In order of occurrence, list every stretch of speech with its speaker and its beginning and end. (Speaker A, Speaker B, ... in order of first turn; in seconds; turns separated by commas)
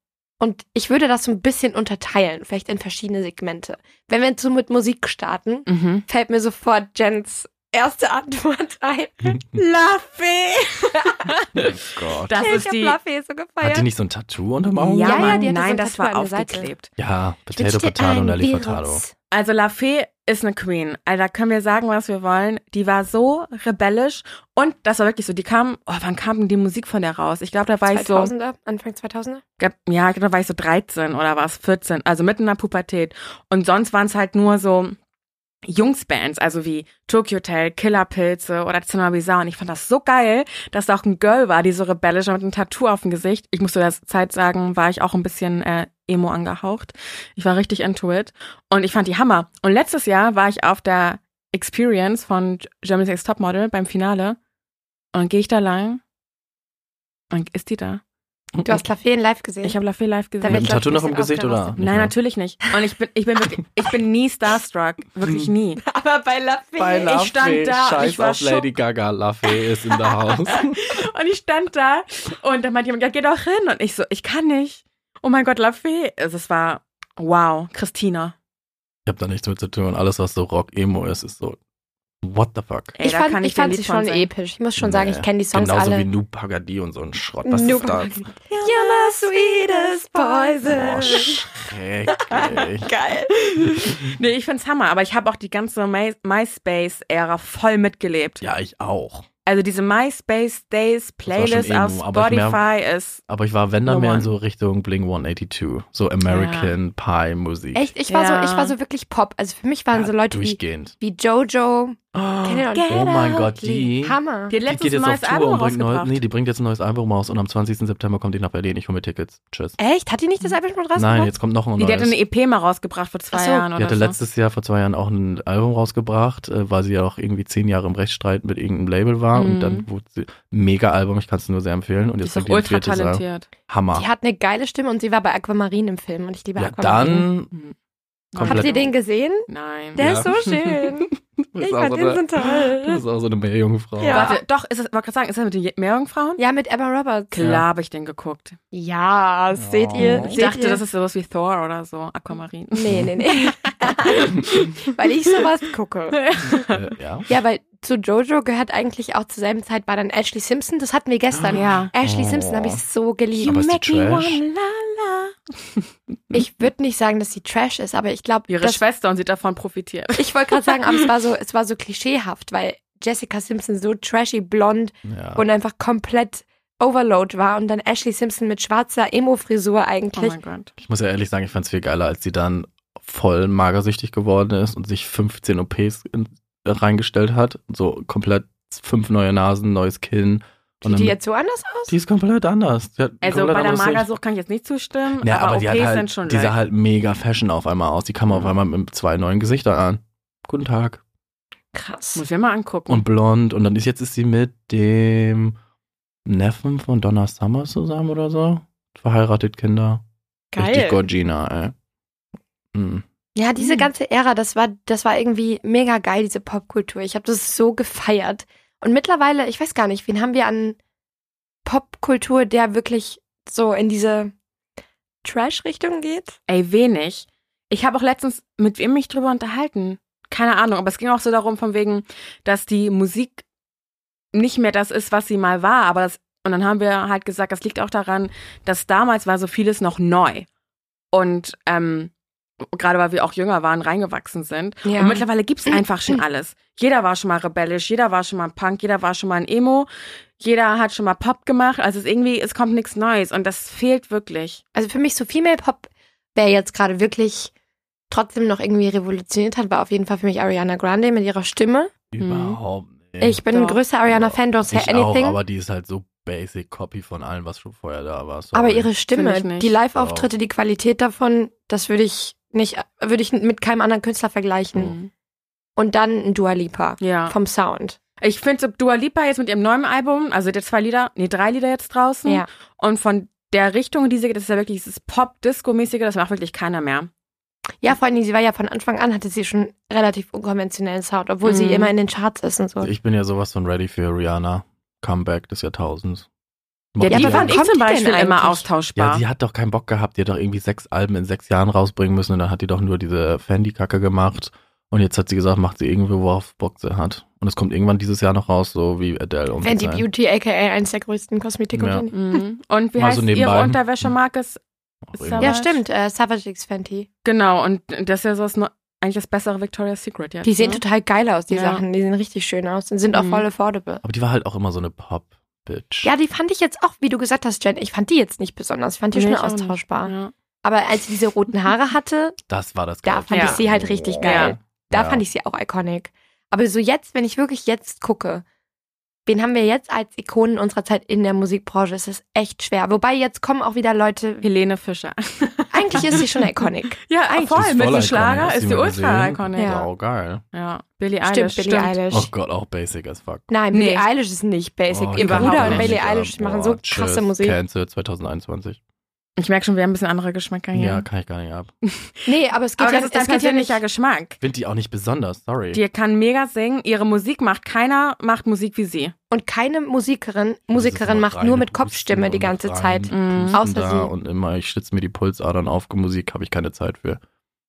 Speaker A: 0.4-9.6, Speaker B: 5.7-6.0, Speaker B: 9.6-13.0, Speaker A: 10.9-11.3, Speaker C: 11.6-12.6, Speaker A: 12.4-13.9, Speaker C: 13.6-15.5, Speaker B: 14.8-16.9, Speaker A: 15.0-16.7, Speaker C: 17.0-19.0, Speaker A: 17.6-19.1, Speaker B: 19.3-28.3, Speaker A: 27.9-29.4, Speaker B: 29.6-35.0, Speaker B: 35.7-54.4, Speaker B: 55.1-56.0, Speaker B: 57.3-58.0, Speaker C: 58.5-58.8, Speaker A: 58.6-59.8, Speaker B: 59.6-60.8, Speaker A: 60.4-61.8, Speaker C: 60.5-62.1, Speaker B: 61.8-65.8, Speaker C: 65.2-65.5, Speaker A: 65.8-67.2, Speaker C: 66.8-70.9, Speaker B: 67.0-68.7, Speaker B: 70.8-78.3, Speaker C: 79.1-81.6, Speaker C: 82.2-83.0, Speaker A: 83.0-86.1, Speaker B: 83.0-84.3, Speaker C: 84.8-88.2, Speaker A: 87.5-91.5, Speaker B: 88.5-90.7, Speaker C: 90.7-92.9, Speaker A: 92.2-93.3, Speaker B: 93.3-98.4, Speaker C: 98.4-99.3, Speaker B: 99.5-103.2, Speaker C: 101.3-102.6, Speaker C: 103.3-107.9, Speaker B: 103.8-104.3, Speaker B: 106.3-106.7, Speaker A: 107.8-114.6, Speaker B: 108.1-108.8, Speaker C: 109.9-111.0, Speaker C: 112.1-119.8, Speaker B: 112.8-113.1, Speaker B: 114.5-116.2, Speaker A: 119.8-121.3, Speaker C: 121.0-122.2, Speaker B: 121.8-124.2, Speaker A: 123.3-123.7, Speaker C: 123.8-134.1, Speaker B: 129.3-129.9, Speaker B: 132.2-133.5, Speaker A: 133.9-137.3, Speaker C: 136.6-137.5, Speaker B: 138.3-138.9, Speaker C: 138.4-138.8, Speaker A: 138.4-143.0, Speaker B: 139.5-140.0, Speaker C: 140.0-140.9, Speaker C: 141.5-144.4, Speaker A: 144.0-144.4, Speaker B: 144.1-146.4, Speaker A: 146.4-147.4, Speaker B: 147.3-148.6, Speaker C: 147.4-147.7, Speaker A: 148.7-150.8, Speaker C: 149.6-150.4, Speaker B: 150.0-154.7, Speaker A: 152.7-156.2, Speaker B: 156.1-156.8, Speaker C: 156.7-157.3, Speaker A: 157.3-163.6, Speaker C: 161.3-162.8, Speaker B: 161.5-161.9, Speaker B: 163.4-165.8, Speaker C: 163.4-164.4, Speaker A: 166.3-168.8, Speaker B: 168.5-170.9, Speaker A: 170.2-180.4, Speaker C: 175.1-175.4, Speaker B: 180.1-180.7, Speaker C: 180.8-191.2, Speaker A: 190.8-191.9, Speaker C: 191.9-194.1, Speaker B: 193.2-196.6, Speaker C: 195.2-201.0, Speaker A: 201.7-202.2, Speaker B: 202.2-203.1, Speaker C: 202.9-205.6, Speaker C: 206.3-210.0, Speaker A: 210.5-211.0, Speaker C: 210.6-211.7, Speaker C: 212.7-213.0, Speaker A: 213.4-220.8, Speaker B: 213.6-213.9, Speaker A: 221.7-224.3, Speaker A: 225.2-226.3, Speaker B: 226.5-233.4, Speaker B: 234.3-240.5, Speaker B: 241.1-242.1, Speaker B: 242.7-249.9, Speaker A: 244.8-246.2, Speaker B: 250.4-254.6, Speaker A: 254.8-257.5, Speaker A: 258.1-261.9, Speaker C: 262.1-263.4, Speaker B: 262.2-262.6, Speaker A: 263.2-265.4, Speaker B: 263.5-263.8, Speaker C: 264.1-268.9, Speaker A: 268.5-275.0, Speaker B: 269.1-269.8, Speaker C: 269.9-270.3, Speaker B: 274.8-275.1, Speaker A: 275.8-278.0, Speaker B: 277.0-277.4, Speaker B: 278.2-287.1, Speaker A: 287.8-292.9, Speaker B: 291.4-291.9, Speaker C: 292.8-296.3, Speaker C: 296.9-297.6, Speaker B: 297.0-299.2, Speaker A: 297.1-298.7, Speaker C: 299.0-310.1, Speaker A: 309.6-312.4, Speaker C: 311.7-312.1, Speaker B: 312.1-314.6, Speaker C: 313.0-314.1, Speaker C: 315.1-315.6, Speaker B: 315.1-315.8, Speaker A: 315.4-317.1, Speaker B: 317.2-320.8, Speaker A: 320.4-324.0, Speaker B: 321.5-321.8, Speaker B: 323.1-323.4, Speaker C: 324.0-326.1, Speaker A: 326.0-332.4, Speaker B: 329.1-330.3, Speaker C: 332.5-335.2, Speaker A: 333.1-338.4, Speaker B: 333.3-333.6, Speaker B: 334.2-334.6, Speaker A: 339.3-344.5, Speaker B: 344.4-346.2, Speaker A: 345.7-347.5, Speaker B: 347.1-349.8, Speaker C: 347.4-350.4, Speaker A: 349.6-349.9, Speaker B: 350.5-352.0, Speaker A: 351.2-352.3, Speaker C: 352.1-353.5, Speaker A: 353.5-357.6, Speaker B: 353.7-354.1, Speaker C: 354.9-358.8, Speaker B: 355.2-356.0, Speaker B: 359.4-361.1, Speaker C: 360.7-361.7, Speaker B: 361.9-364.4, Speaker A: 362.3-363.8, Speaker C: 364.4-365.8, Speaker B: 365.7-369.1, Speaker A: 369.3-374.1, Speaker C: 370.7-377.2, Speaker B: 373.1-373.6